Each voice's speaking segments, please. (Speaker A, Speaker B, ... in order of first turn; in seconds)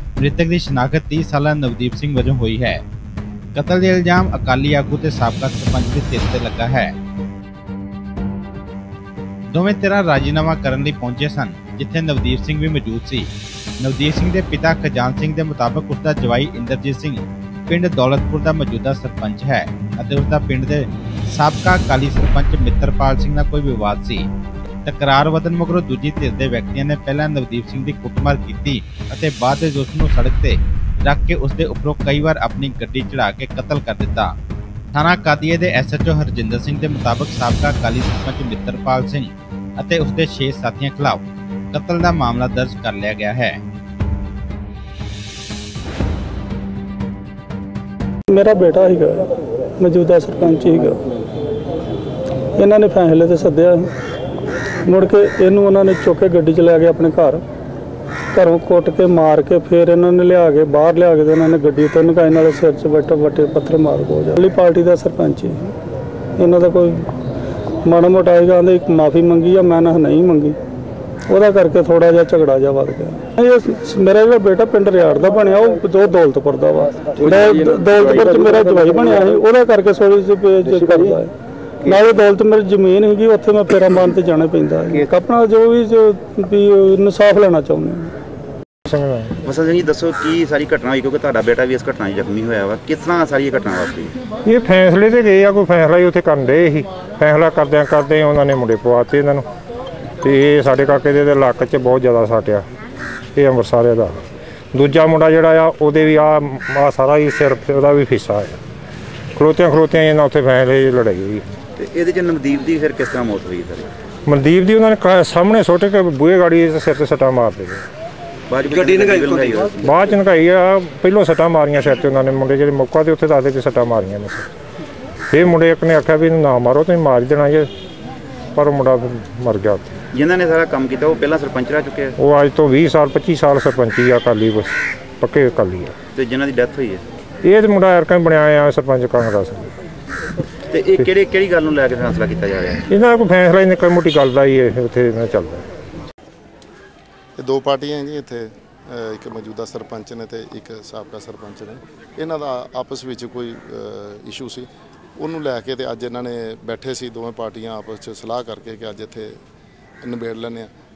Speaker A: 0.2-2.8, 3.5-6.9, 9.5-13.3, 13.8-24.3, 24.8-34.3, 34.9-43.6
Speaker B: 48.3-51.1, 52.5-53.9, 54.8-57.4, 58.3-65.7, 66.3-67.1, 67.8-70.5, 71.3-88.1
Speaker C: 88.8-89.4, 94.4-99.4, 100.2-102.6, 103.3-104.2, 104.7-108.6, 109.3-111.4, 114.3-117.8, 119.8-124.5, 125.3-127.7, 128.6-129.9, 132.2-135.9, 137.4-139.7, 142.9-145.7
Speaker D: 89.4-94.2, 111.8-113.9, 118.5-119.9, 130.1-132.2, 136.1-137.0, 140.7-142.8
Speaker E: 147.4-159.3, 160.0-160.7